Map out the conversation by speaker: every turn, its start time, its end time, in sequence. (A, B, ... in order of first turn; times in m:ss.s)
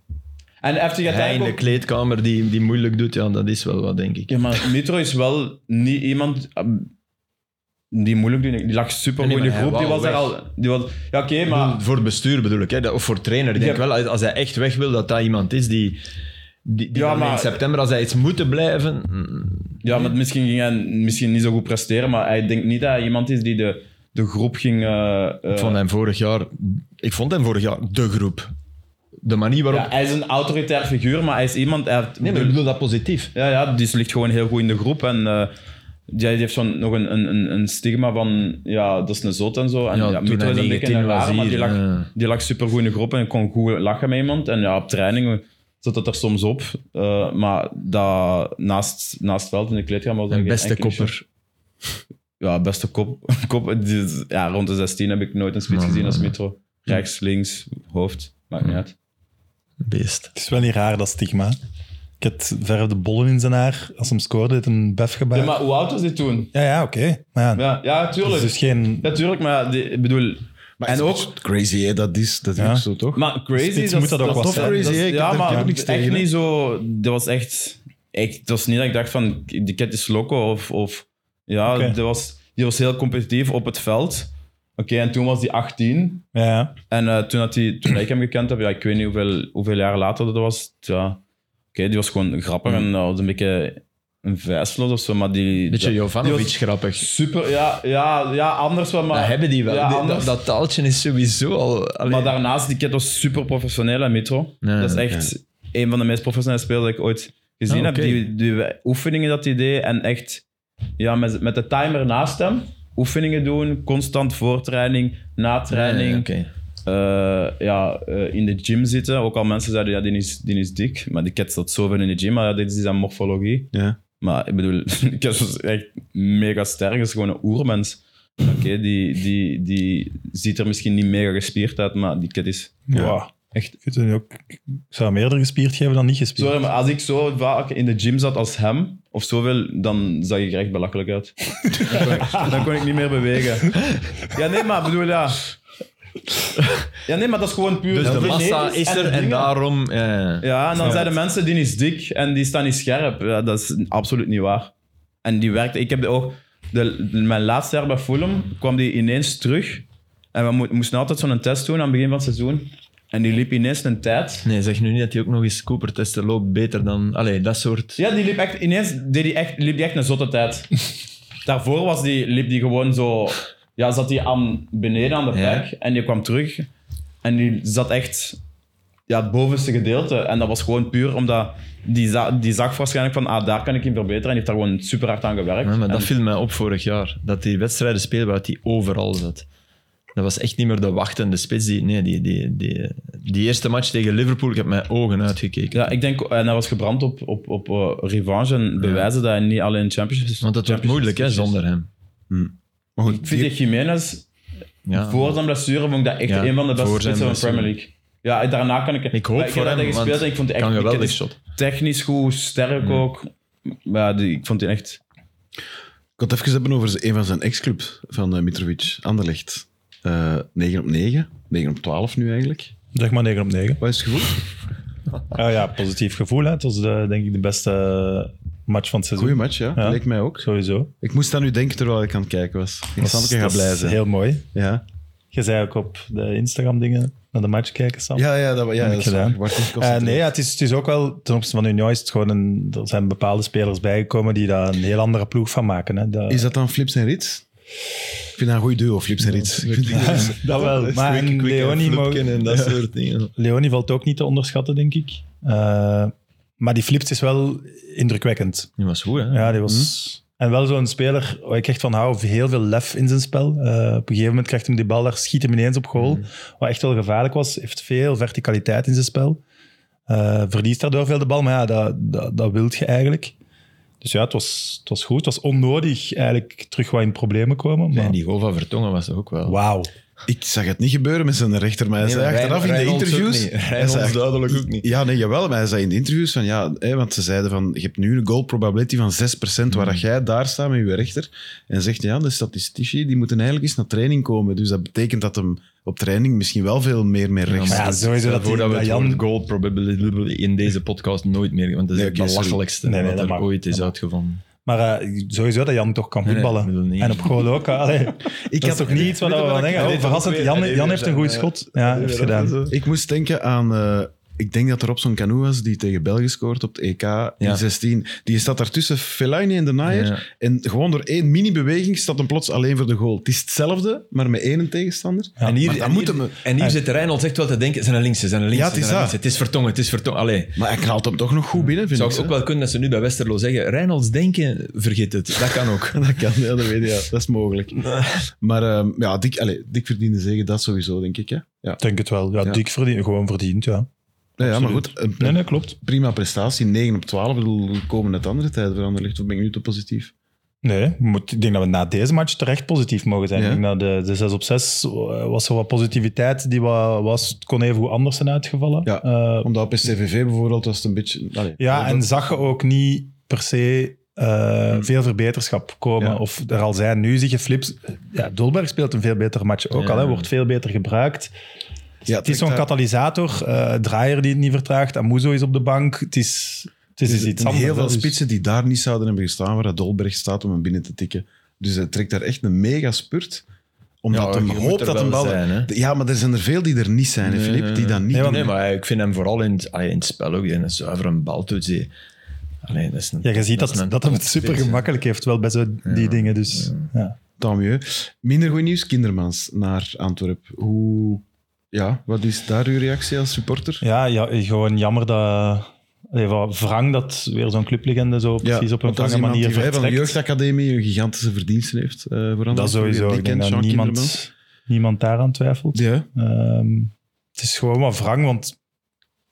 0:00.6-0:01.6 A
0:01.0-0:04.4 B
0:04.3-0:06.9 A
0:07.9-0:11.8 A
0:09.2-0:10.3 B
0:11.5-0:16.0 B
0:13.6-0:13.8 A
0:16.6-0:20.1 B
0:16.9-0:17.6 A
0:19.8-0:25.8 A
0:25.5-0:28.5 B
0:29.2-0:29.9 B
0:29.7-0:32.6 A
0:32.2-0:33.3 B
0:33.3-0:35.5 A
0:36.1-0:51.1 A
0:39.9-0:42.1 B
0:50.3-0:51.2 B
0:52.4-0:58.9 A
0:55.7-0:56.3 B
0:59.8-1:00.3 B
1:00.4-1:01.6 C
1:02.2-1:05.6 C
1:05.3-1:06.5 A
1:06.5-1:07.6 C
1:07.6-1:11.3 A
1:08.2-1:09.1 C
1:10.8-1:13.2 D
1:12.6-1:12.8 C
1:13.1-1:26.3 A
1:13.6-1:15.0 C
1:14.2-1:16.3 D
1:21.7-1:22.0 C
1:26.4-1:26.7 C
1:26.9-1:31.2 A
1:31.7-1:40.4 A
1:35.7-1:37.1 B
1:39.1-1:42.3 B
1:42.0-1:50.4 A
1:44.6-1:45.0 B
1:47.7-1:48.2 B
1:51.0-1:56.3 A
1:55.7-1:56.5 B
1:56.8-2:12.8 A
2:12.9-2:16.6 C
2:12.9-2:13.2 D
2:16.4-2:25.5 A
2:21.9-2:22.4 B
2:27.1-2:29.5 A
2:27.9-2:31.1 B
2:28.0-2:28.4 D
2:30.4-2:34.7 A
2:35.2-2:44.5 A
2:44.4-2:48.0 B
2:48.0-2:50.8 A
2:51.4-2:56.7 A
2:55.3-2:55.7 B
2:57.2-2:58.4 A
2:59.1-3:06.1 A
3:05.6-3:09.5 B
3:10.2-3:15.9 B
3:15.7-3:21.6 A
3:18.8-3:19.1 B
3:20.4-3:21.9 B
3:22.3-3:23.5 D
3:23.1-3:24.3 A
3:24.9-3:25.4 B
3:24.9-3:35.0 A
3:26.3-3:27.7 B
3:29.1-3:31.4 B
3:36.2-3:42.7 D
3:42.9-3:43.8 C
3:43.8-3:44.4 D
3:45.3-3:50.9 C
3:49.2-3:50.5 D
3:51.0-3:54.0 D
3:53.0-3:54.4 C
3:54.5-3:54.8 D
3:55.3-3:58.2 C
3:58.2-4:00.3 D
3:58.8-4:06.4 C
4:06.3-4:07.4 D
4:08.4-4:10.9 D
4:09.2-4:13.3 B
4:09.9-4:12.7 C
4:13.4-4:18.7 C
4:18.8-4:19.6 B
4:19.3-4:29.4 C
4:19.7-4:19.9 D
4:26.0-4:26.2 B
4:30.1-4:33.3 C
4:34.0-4:38.2 C
4:37.9-4:39.6 B
4:39.5-4:39.9 C
4:40.3-4:58.1 D
4:42.0-4:44.9 B
4:49.7-4:50.0 B
4:57.5-5:04.4 B
4:57.7-4:59.2 C
5:01.9-5:02.6 D
5:02.8-5:03.9 C
5:04.6-5:12.6 C
5:06.2-5:07.5 B
5:08.5-5:10.0 D
5:08.8-5:12.8 B
5:12.7-5:26.4 D
5:19.9-5:20.2 B
5:25.4-5:25.7 C
5:25.4-5:30.6 B
5:28.5-5:29.2 D
5:30.6-5:32.4 D
5:31.8-5:36.0 B
5:35.8-5:41.8 D
5:37.8-5:38.3 B
5:41.8-5:43.9 C
5:44.4-5:50.1 D
5:44.4-5:45.8 C
5:50.6-5:59.5 C
5:53.4-5:53.6 D
5:58.8-6:02.1 D
6:01.6-6:11.3 C
6:09.7-6:10.3 B
6:12.1-6:12.7 D
6:12.2-6:18.2 C
6:17.0-6:23.4 D
6:24.0-6:28.5 D
6:24.1-6:25.7 B
6:27.2-6:31.9 B
6:28.1-6:28.5 C
6:32.6-6:34.8 B
6:33.2-6:37.2 C
6:35.8-6:36.9 B
6:37.4-6:43.8 D
6:43.8-6:50.2 C
6:48.4-6:54.2 D
6:52.5-6:58.6 C
6:55.7-6:56.1 D